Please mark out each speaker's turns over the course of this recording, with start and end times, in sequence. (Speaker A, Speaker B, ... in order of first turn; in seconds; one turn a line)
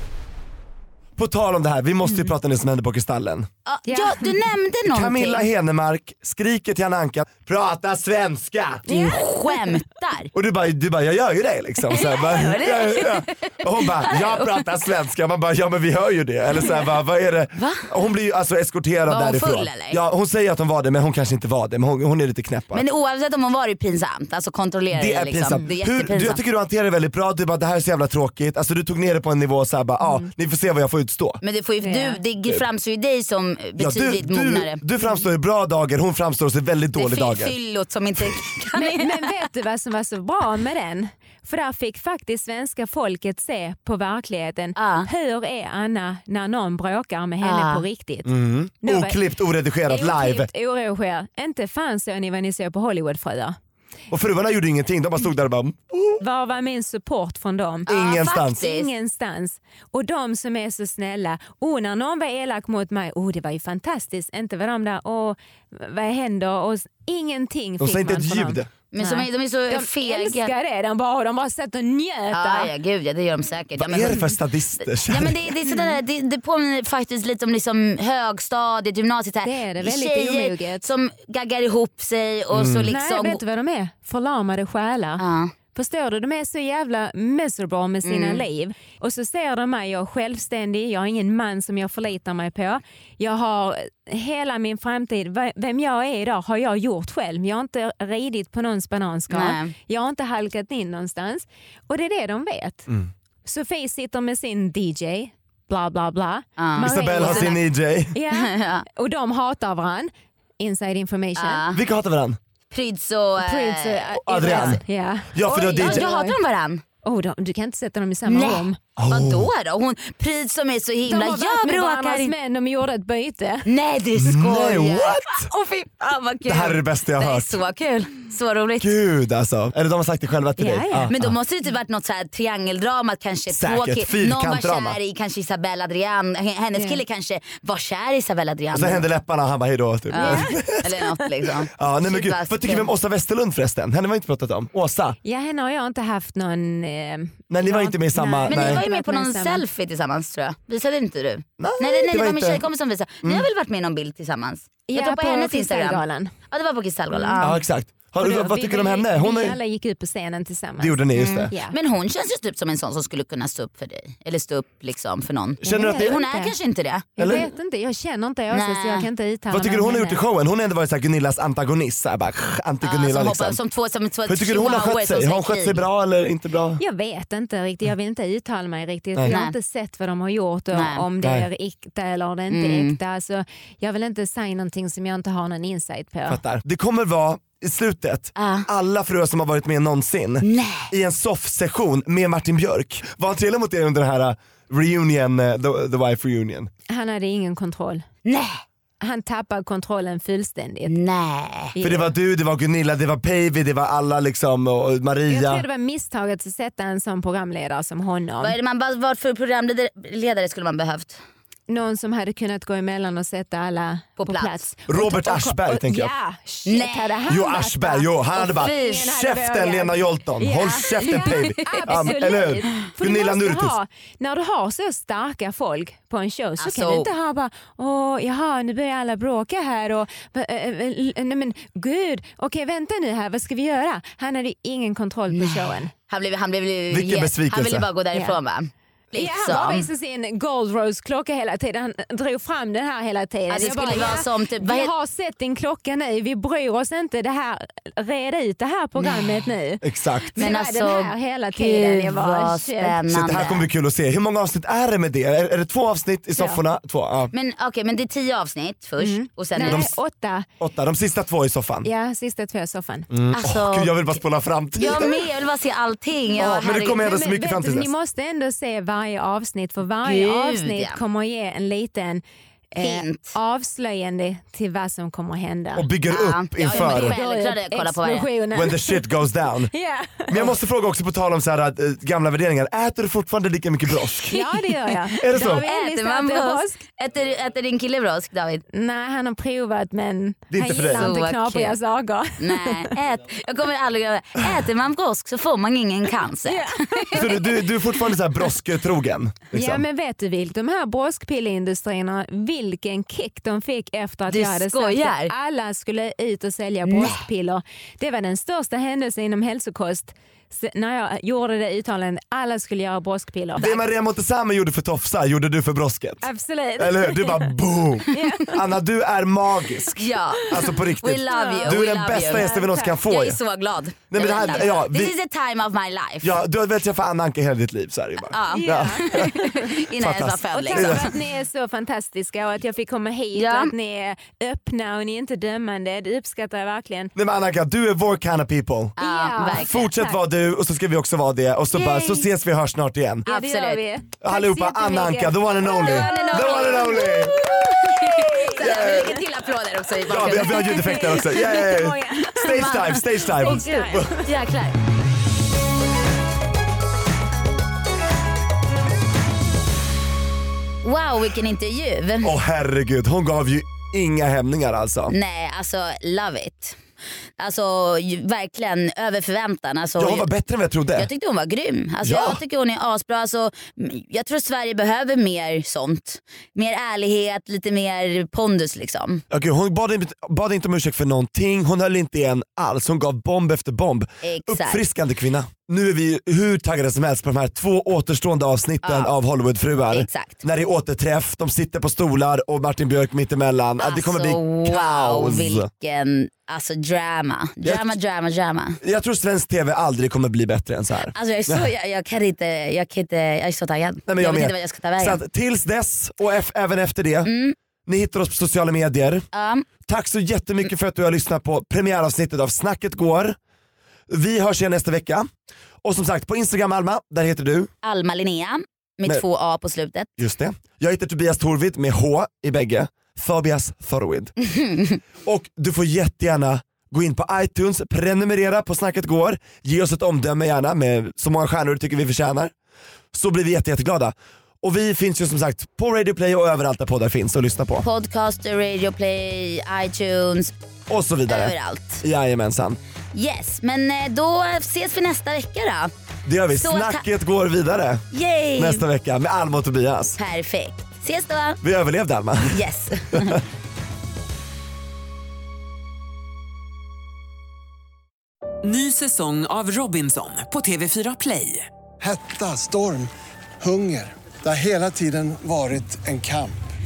Speaker A: 1.2-3.5
Speaker B: 3.6-5.5
Speaker C: 3.9-4.3
Speaker A: 4.9-8.8
Speaker C: 8.9-9.6
Speaker B: 8.9-10.3
Speaker A: 10.3-22.8
Speaker B: 11.9-14.5
Speaker B: 17.6-17.9
Speaker B: 19.1-20.0
Speaker B: 22.7-26.4
Speaker A: 24.9-31.4
Speaker C: 30.0-30.3
Speaker B: 31.4-34.8
Speaker C: 31.8-32.2
Speaker A: 33.8-37.5
Speaker B: 37.0-39.3
Speaker C: 38.8-49.2
Speaker B: 44.8-45.1
Speaker B: 47.4-47.8
Speaker A: 48.2-50.5
Speaker C: 49.9-53.5
Speaker A: 54.1-56.2
Speaker C: 56.2-72.7
Speaker A: 57.9-58.7
Speaker B: 57.9-58.9
Speaker A: 67.8-68.7
Speaker B: 68.9-70.5
Speaker B: 72.3-74.4
Speaker A: 73.8-75.5
Speaker B: 75.0-83.4
Speaker C: 75.7-76.0
Speaker C: 79.4-80.8
Speaker A: 82.5-82.9
Speaker C: 82.9-102.9
Speaker B: 85.2-85.5
Speaker B: 88.0-88.4
Speaker B: 99.3-99.7
Speaker C: 103.4-107.6
Speaker B: 106.6-107.5
Speaker A: 106.8-108.1
Speaker C: 108.1-111.7
Speaker B: 108.3-108.8
Speaker B: 111.4-111.8
Speaker A: 111.7-112.4
Speaker B: 112.7-114.8
Speaker C: 113.4-116.4
Speaker A: 114.3-114.8
Speaker A: 115.3-116.0
Speaker B: 115.8-116.8
Speaker C: 117.0-118.8
Speaker B: 118.3-122.3
Speaker A: 119.0-119.5
Speaker C: 121.0-123.7
Speaker B: 123.7-129.0
Speaker A: 124.2-125.5
Speaker A: 126.5-127.6
Speaker A: 128.8-131.3
Speaker C: 130.6-131.1
Speaker B: 131.1-139.0
Speaker A: 133.5-135.0
Speaker C: 136.7-137.0
Speaker A: 138.7-140.9
Speaker B: 140.1-142.9
Speaker C: 140.2-141.0
Speaker A: 141.7-145.2
Speaker C: 145.2-149.6
Speaker A: 147.5-148.8
Speaker B: 148.5-157.6
Speaker A: 151.6-152.6
Speaker C: 154.9-156.3
Speaker C: 157.1-157.5
Speaker A: 157.4-159.6
Speaker C: 158.2-161.7
Speaker A: 160.8-161.5
Speaker B: 161.1-167.4
Speaker C: 165.6-166.5
Speaker A: 165.6-166.2
Speaker C: 167.2-170.2
Speaker A: 167.2-167.4
Speaker B: 168.5-169.1
Speaker A: 169.5-173.6
Speaker B: 172.8-175.8
Speaker A: 174.3-176.8
Speaker C: 176.8-186.4
Speaker B: 179.3-179.5
Speaker B: 180.7-181.1
Speaker B: 182.5-183.0
Speaker A: 186.3-196.7
Speaker B: 188.3-188.7
Speaker B: 190.4-190.9
Speaker C: 196.9-198.0
Speaker B: 198.2-198.6
Speaker C: 199.0-200.9
Speaker B: 200.9-201.7
Speaker C: 201.7-202.1
Speaker A: 201.8-205.6
Speaker C: 205.3-208.6
Speaker B: 208.4-211.2
Speaker C: 211.7-235.9
Speaker B: 214.2-214.6
Speaker A: 214.9-216.1
Speaker B: 216.7-217.2
Speaker A: 217.3-223.7
Speaker B: 218.4-219.1
Speaker B: 221.1-222.2
Speaker B: 226.6-227.1
Speaker B: 235.3-239.9
Speaker A: 236.9-237.8
Speaker C: 239.2-253.0
Speaker B: 243.5-244.9
Speaker B: 249.0-249.3
Speaker A: 249.8-250.3
Speaker B: 250.3-253.7
Speaker A: 253.1-257.3
Speaker B: 257.3-259.9
Speaker C: 259.0-260.5
Speaker A: 259.6-259.9
Speaker A: 260.6-261.9
Speaker C: 261.8-263.1
Speaker A: 263.1-265.1
Speaker B: 263.3-264.1
Speaker B: 264.8-267.1
Speaker A: 266.4-267.9
Speaker C: 266.8-275.9
Speaker B: 270.0-271.0
Speaker B: 272.8-273.3
Speaker A: 275.8-277.1
Speaker B: 276.1-278.3
Speaker C: 276.7-279.1
Speaker A: 278.5-279.7
Speaker C: 279.7-280.5
Speaker A: 280.3-284.5
Speaker C: 284.3-286.8
Speaker A: 285.2-285.6
Speaker B: 285.3-288.6
Speaker C: 288.7-292.9
Speaker A: 290.5-291.2
Speaker B: 291.0-291.8
Speaker B: 292.4-297.3
Speaker C: 296.4-297.5
Speaker A: 297.1-299.8
Speaker C: 299.5-313.6
Speaker B: 304.3-305.3
Speaker B: 306.9-307.2
Speaker A: 313.6-316.2
Speaker C: 316.2-317.5
Speaker A: 316.8-323.4
Speaker C: 318.1-318.6
Speaker B: 320.0-326.4
Speaker C: 321.3-322.9
Speaker A: 324.1-325.1
Speaker A: 326.2-329.3
Speaker B: 328.3-331.1
Speaker C: 328.5-329.7
Speaker A: 330.0-331.1
Speaker C: 330.5-337.1
Speaker B: 333.3-333.7
Speaker A: 337.1-339.0
Speaker B: 339.0-339.8
Speaker C: 339.0-340.2
Speaker A: 339.5-343.2
Speaker C: 341.7-342.2
Speaker C: 343.2-349.2
Speaker B: 343.3-343.8
Speaker A: 344.2-347.4
Speaker B: 345.6-351.3
Speaker A: 348.6-349.2
Speaker A: 350.1-354.1
Speaker C: 350.1-354.3
Speaker B: 352.4-354.7
Speaker B: 360.8-362.3
Speaker A: 362.2-365.1
Speaker B: 365.1-366.8
Speaker B: 367.4-370.3
Speaker A: 370.0-371.1
Speaker B: 370.9-379.2
Speaker A: 372.0-372.4
Speaker A: 379.3-395.7
Speaker B: 384.2-384.8
Speaker B: 388.8-389.1
Speaker B: 389.9-390.4
Speaker B: 393.8-398.8
Speaker A: 397.6-397.9
Speaker A: 398.8-401.7
Speaker B: 401.1-405.2
Speaker A: 404.1-407.3
Speaker B: 407.2-407.6
Speaker A: 407.9-409.2
Speaker B: 409.3-409.7
Speaker A: 409.8-413.4
Speaker A: 414.1-415.3
Speaker A: 415.8-417.7
Speaker B: 417.8-420.1
Speaker A: 420.2-424.3
Speaker B: 424.5-425.0
Speaker A: 425.2-432.5
Speaker A: 433.1-437.8
Speaker B: 437.8-440.5
Speaker A: 440.9-442.8
Speaker B: 441.3-442.0
Speaker B: 443.1-445.9
Speaker A: 446.2-448.1
Speaker B: 446.5-447.0
Speaker B: 448.1-448.8
Speaker A: 448.6-450.2
Speaker B: 450.2-451.6
Speaker A: 451.6-453.4
Speaker B: 452.5-453.4
Speaker D: 458.6-461.7
Speaker E: 462.0-466.5